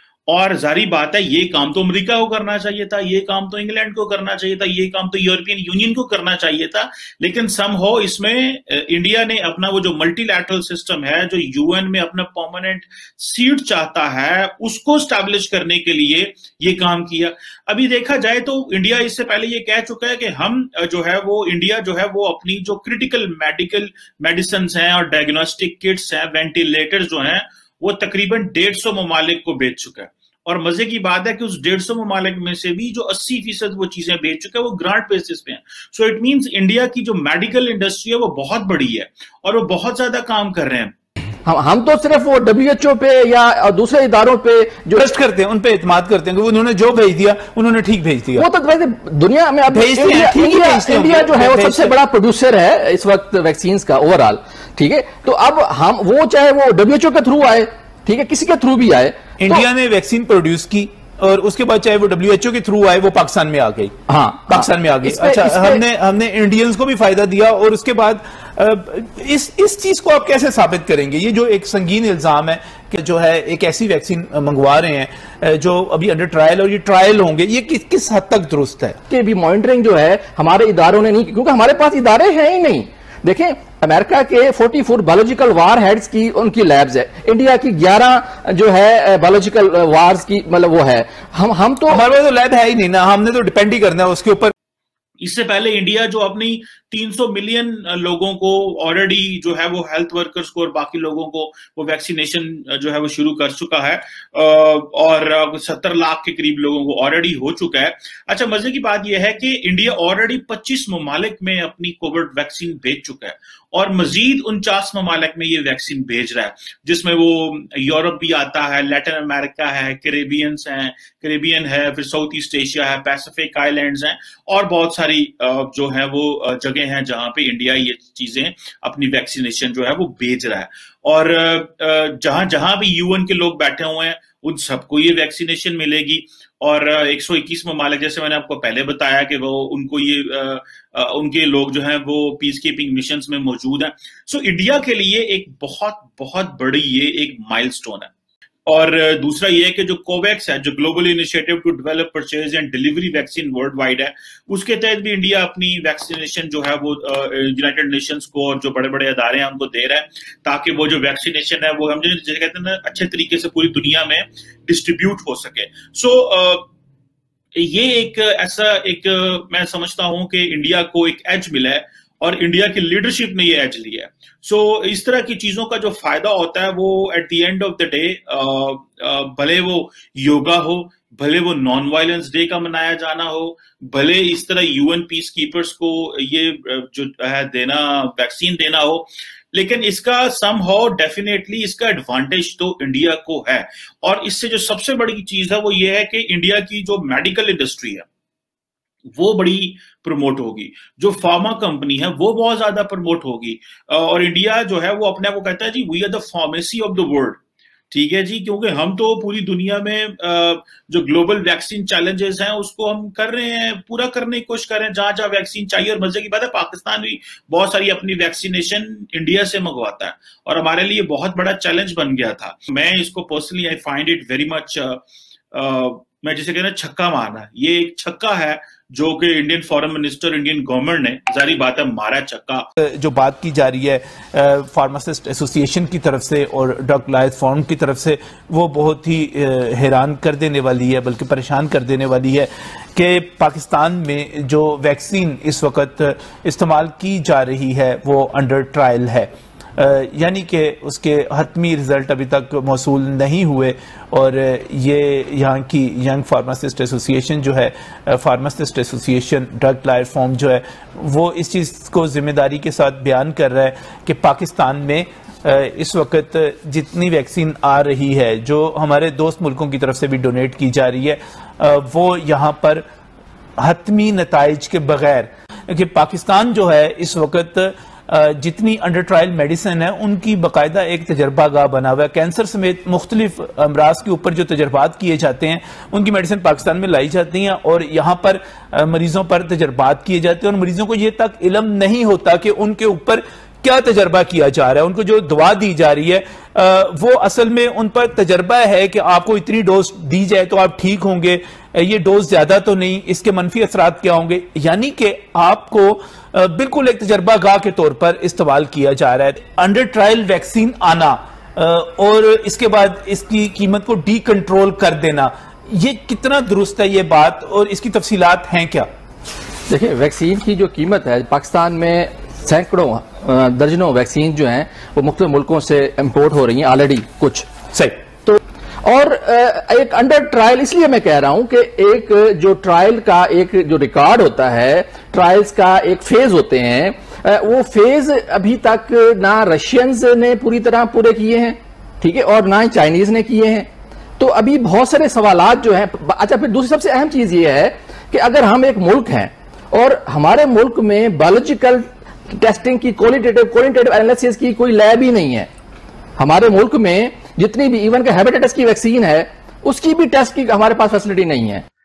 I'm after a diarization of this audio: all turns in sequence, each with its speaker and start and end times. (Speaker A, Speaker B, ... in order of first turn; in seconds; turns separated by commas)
Speaker A: 0.3-40.9, Speaker B: 41.5-45.1, Speaker C: 45.0-48.5, Speaker B: 48.4-59.6, Speaker C: 49.7-52.0, Speaker C: 59.4-63.9, Speaker B: 64.1-65.8, Speaker C: 64.5-79.0, Speaker B: 79.1-92.0, Speaker C: 91.9-94.5, Speaker A: 95.2-148.1, Speaker A: 148.7-166.7, Speaker A: 167.6-198.1, Speaker A: 199.2-207.4, Speaker A: 207.9-225.0, Speaker A: 225.5-232.7, Speaker C: 232.9-272.8, Speaker C: 273.6-318.9, Speaker B: 319.7-327.5, Speaker C: 327.7-328.0, Speaker B: 328.2-355.5, Speaker B: 356.2-361.6